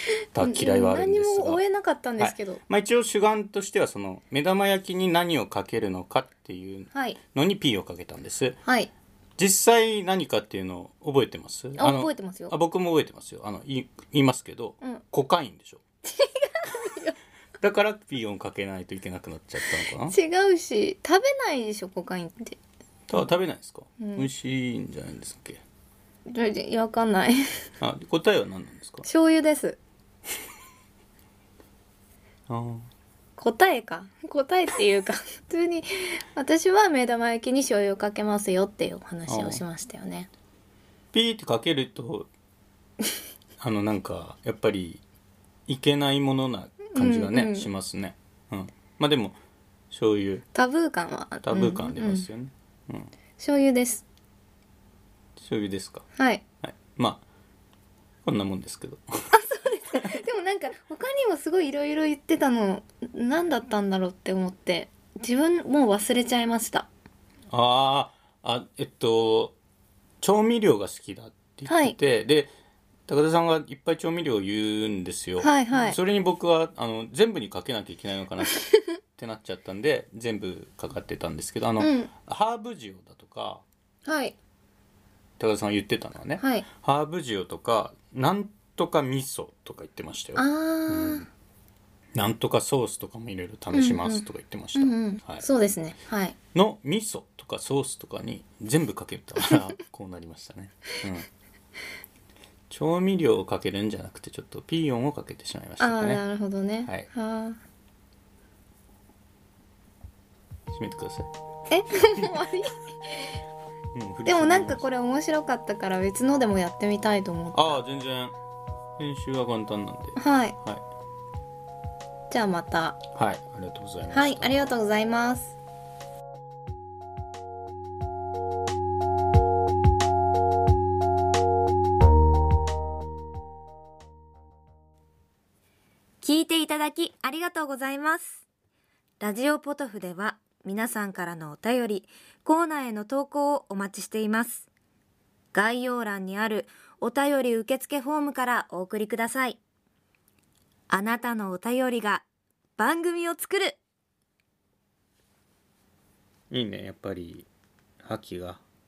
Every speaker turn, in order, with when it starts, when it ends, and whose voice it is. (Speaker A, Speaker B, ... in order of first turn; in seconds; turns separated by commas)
Speaker A: 0.3-1.6, Speaker B: 0.4-2.6, Speaker A: 2.2-8.6, Speaker B: 6.9-7.2, Speaker B: 8.7-8.9, Speaker A: 9.4-15.8, Speaker B: 11.8-12.5, Speaker B: 16.1-17.1, Speaker A: 17.6-20.2, Speaker B: 20.0-22.6, Speaker A: 23.1-25.6, Speaker B: 24.0-24.3, Speaker B: 26.3-27.4, Speaker A: 27.8-29.1, Speaker B: 29.0-29.8, Speaker A: 32.5-32.9, Speaker B: 33.4-40.3, Speaker A: 39.3-39.6, Speaker A: 41.1-42.3, Speaker A: 43.6-45.0, Speaker A: 45.7-49.4, Speaker B: 46.9-47.7, Speaker A: 49.9-50.5, Speaker B: 50.5-52.3, Speaker A: 51.4-53.1, Speaker B: 53.4-54.0, Speaker A: 55.4-56.1, Speaker B: 56.2-56.4, Speaker A: 56.6-57.2, Speaker A: 58.2-59.0, Speaker B: 59.3-66.9, Speaker A: 67.5-69.6, Speaker A: 70.2-72.5, Speaker B: 71.7-72.0, Speaker A: 73.1-83.6, Speaker B: 75.4-76.0, Speaker B: 81.8-82.1, Speaker B: 84.0-84.4, Speaker A: 85.4-91.3, Speaker B: 86.4-86.7, Speaker B: 90.4-91.3, Speaker A: 92.2-95.5, Speaker B: 93.7-96.4, Speaker A: 96.5-101.3, Speaker A: 102.7-106.2, Speaker B: 105.8-107.6, Speaker A: 110.7-111.3, Speaker B: 111.7-113.4, Speaker A: 113.9-114.9, Speaker B: 114.3-117.8, Speaker A: 117.5-118.3, Speaker A: 119.0-120.8, Speaker B: 120.2-120.6, Speaker B: 122.3-123.0, Speaker A: 123.1-124.7, Speaker B: 124.1-125.6, Speaker C: 136.2-138.4, Speaker C: 139.2-144.7, Speaker C: 145.5-149.6, Speaker C: 150.9-152.2, Speaker C: 152.8-153.8, Speaker A: 156.5-157.5, Speaker A: 158.0-158.6